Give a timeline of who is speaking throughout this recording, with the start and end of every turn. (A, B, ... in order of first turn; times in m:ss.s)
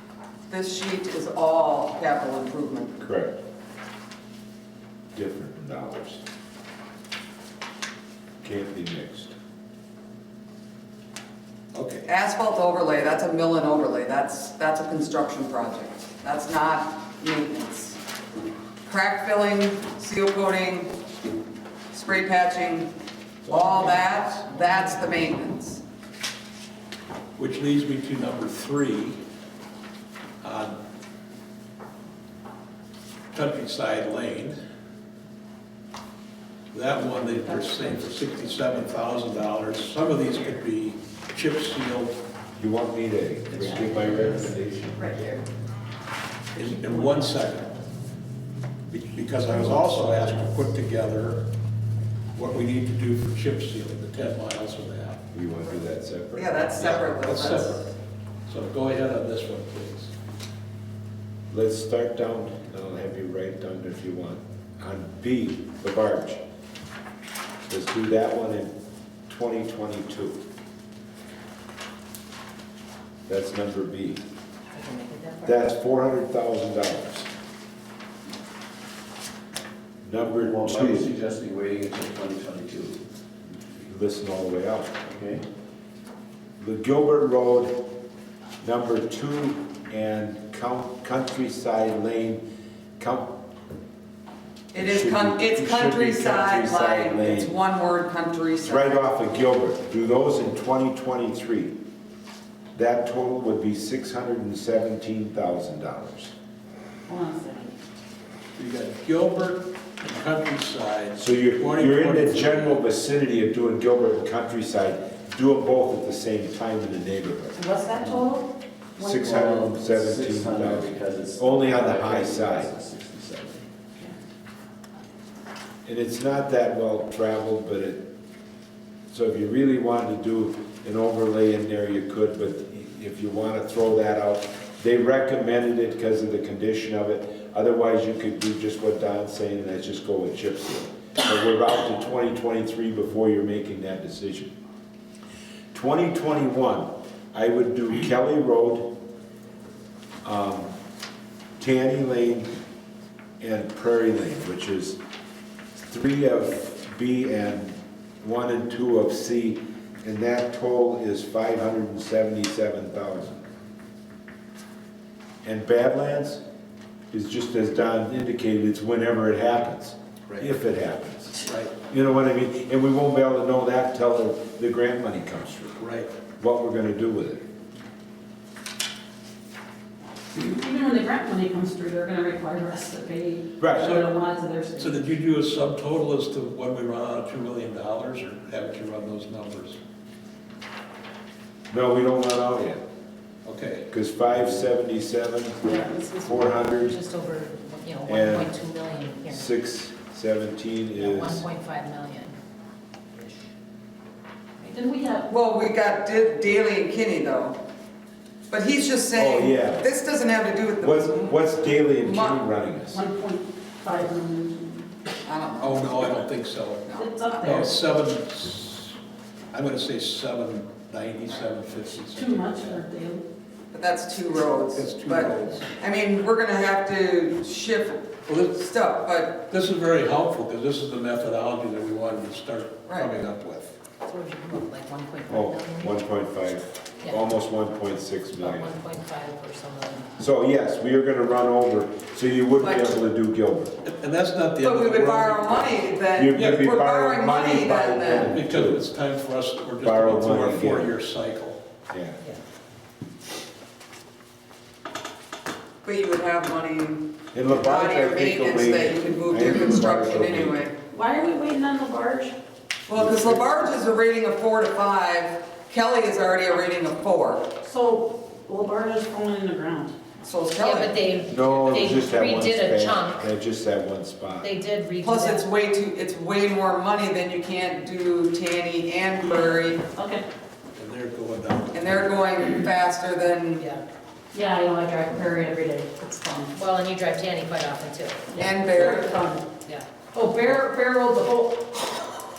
0:00.5-0:03.0 A
0:03.0-0:03.4 B
0:05.2-0:06.2 B
0:08.4-0:09.4 B
0:11.7-0:12.1 C
0:12.0-0:18.0 A
0:18.9-0:21.0 A
0:21.9-0:22.9 A
0:23.5-0:23.9 B
0:23.5-0:25.8 A
0:23.7-0:24.8 C
0:27.4-0:29.2 C
0:30.4-0:30.8 C
0:33.3-0:34.6 C
0:36.7-0:42.2 C
0:37.4-0:38.0 D
0:42.6-0:44.6 B
0:43.5-0:45.4 E
0:45.0-0:45.4 D
0:46.5-0:47.7 C
0:46.6-0:47.5 D
0:48.9-0:51.4 C
0:52.4-0:55.2 C
0:55.3-0:57.2 B
0:56.3-0:57.9 A
0:56.8-0:57.8 C
0:58.5-1:00.1 C
1:01.5-1:06.4 B
1:07.7-1:08.7 B
1:09.3-1:10.4 B
1:13.3-1:14.2 B
1:14.7-1:15.6 F
1:15.4-1:17.3 B
1:20.0-1:21.1 B
1:20.3-1:23.0 E
1:23.8-1:25.0 B
1:25.0-1:25.4 E
1:26.6-1:27.8 B
1:28.6-1:32.4 B
1:33.0-1:33.3 B
1:34.7-1:39.0 A
1:34.7-1:37.6 B
1:38.6-1:41.8 B
1:42.7-1:46.3 B
1:47.1-1:47.8 D
1:48.6-1:52.8 C
1:51.2-1:57.6 B
1:57.6-1:59.2 D
1:58.0-1:58.3 E
1:59.0-2:02.7 B
1:59.1-2:03.7 E
2:05.8-2:08.1 B
2:09.1-2:24.5 B
2:25.7-2:28.9 B
2:30.2-2:30.7 B
2:31.6-2:32.5 B
2:33.4-2:35.0 B
2:35.9-2:43.4 B
2:45.4-2:46.4 B
2:47.1-2:55.8 B
2:51.4-2:51.7 C
2:55.8-2:56.1 C
2:56.4-2:57.4 B
3:00.3-3:05.0 D
3:03.6-3:04.0 B
3:03.8-3:04.1 C
3:04.8-3:09.8 C
3:11.7-3:12.8 B
3:13.4-3:13.9 C
3:13.9-3:17.0 B
3:15.6-3:16.3 D
3:16.1-3:19.5 F
3:18.1-3:18.6 B
3:19.3-3:21.4 B
3:21.0-3:22.4 F
3:23.2-3:23.4 F
3:24.6-3:25.3 D
3:25.3-3:27.6 A
3:28.5-3:31.4 A
3:29.2-3:29.9 B
3:30.8-3:33.0 B
3:32.0-3:32.4 A
3:32.9-3:34.9 D
3:35.2-3:36.2 A
3:35.6-3:39.0 C
3:36.9-3:37.2 A
3:37.0-3:37.8 D
3:39.5-3:42.8 C
3:42.1-3:43.2 D
3:43.7-3:49.4 A
3:44.7-3:45.8 C
3:48.3-3:48.6 C
3:49.5-3:53.8 C
3:54.0-3:56.0 F
3:55.3-3:58.8 B
3:58.4-4:00.1 F
4:00.2-4:03.7 B
4:02.6-4:03.0 A
4:03.8-4:05.8 C
4:04.6-4:08.3 A
4:06.2-4:08.8 B
4:06.3-4:06.7 C
4:08.2-4:11.6 C
4:09.8-4:10.9 B
4:11.9-4:12.2 B
4:15.8-4:20.8 A
4:17.3-4:20.6 B
4:20.9-4:22.4 D
4:22.9-4:27.5 A
4:22.9-4:23.5 B
4:27.6-4:29.9 D
4:30.2-4:31.0 A
4:30.6-4:33.3 F
4:31.3-4:34.5 B
4:34.4-4:35.4 F
4:35.0-4:39.8 A
4:40.0-4:40.2 D
4:40.8-4:42.1 C
4:41.7-4:43.6 A
4:43.6-4:43.8 F
4:44.3-4:46.6 D
4:46.6-4:48.3 F
4:48.3-4:49.5 D
4:48.4-4:49.2 A
4:49.6-4:50.6 F
4:50.1-4:51.8 D